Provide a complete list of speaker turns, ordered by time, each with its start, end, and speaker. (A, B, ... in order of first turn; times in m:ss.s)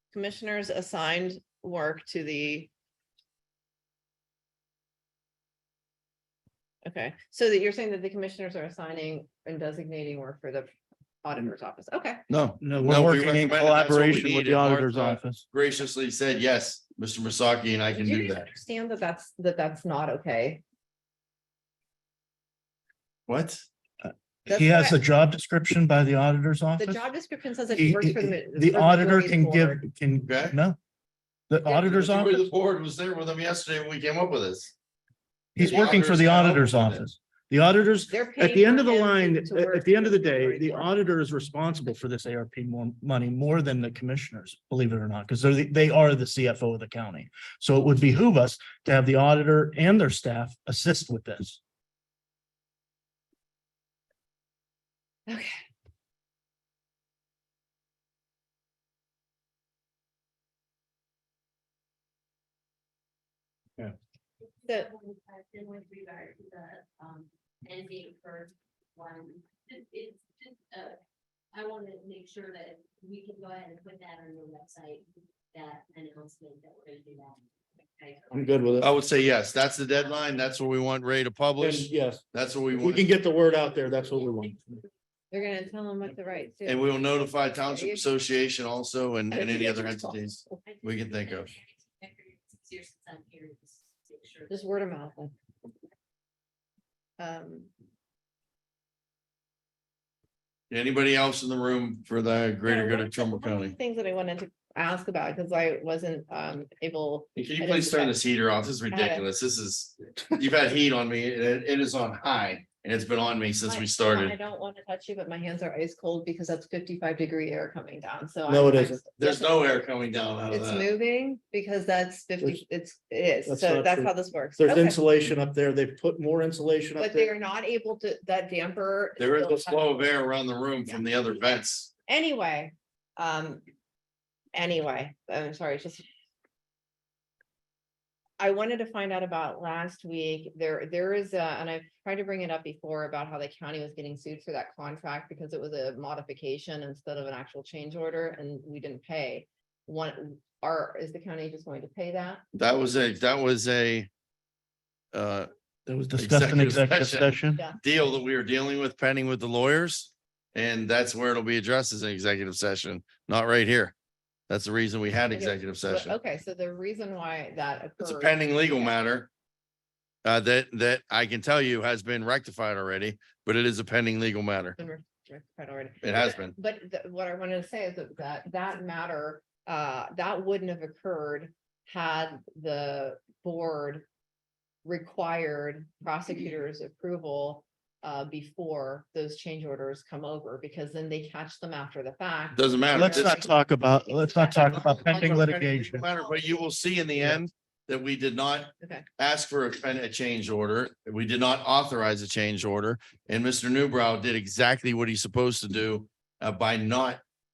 0:00.1-0:02.7 A
0:06.8-0:10.7 A
0:11.2-0:12.2 A
0:12.3-0:18.5 B
0:12.6-0:15.4 C
0:17.9-0:20.6 A
0:23.3-0:23.6 B
0:24.0-0:27.0 C
0:24.5-0:25.0 A
0:26.8-0:29.8 A
0:27.7-0:30.8 C
0:30.2-0:30.6 B
0:31.5-0:32.5 C
0:31.7-0:34.7 B
0:35.5-0:51.6 C
0:35.6-0:37.0 B
0:38.1-0:40.9 A
0:55.3-0:55.6 A
1:04.7-1:04.9 A
1:04.7-1:11.0 D
1:11.5-1:18.5 D
1:18.3-1:18.9 C
1:18.8-1:23.1 B
1:21.6-1:22.2 C
1:22.8-1:24.8 C
1:25.3-1:28.0 A
1:26.6-1:31.5 B
1:29.3-1:30.6 A
1:30.7-1:34.8 D
1:34.5-1:35.3 A
1:37.2-1:37.7 A
1:40.7-1:43.7 B
1:42.6-1:48.2 A
1:47.3-1:54.4 B
1:48.9-1:49.2 A
1:53.6-1:59.8 A
1:58.5-1:59.0 C
1:59.2-2:00.8 B
2:00.5-2:05.0 A
2:03.4-2:07.3 C
2:07.0-2:10.1 A
2:09.2-2:11.9 B
2:12.1-2:13.6 A
2:14.5-2:16.0 A
2:18.4-2:32.4 A
2:32.5-2:34.1 B
2:35.1-2:35.5 B
2:35.9-2:37.6 C
2:36.2-2:43.9 B
2:37.6-2:37.8 A
2:44.5-2:46.1 B
2:45.3-2:48.9 A
2:48.0-2:49.3 B
2:50.2-2:54.8 B
2:54.8-3:04.1 A
2:56.0-2:56.5 B
3:04.8-3:13.5 A
3:12.5-3:13.4 B
3:12.9-3:16.0 C
3:14.1-3:16.6 A
3:14.6-3:27.2 B
3:18.8-3:19.0 A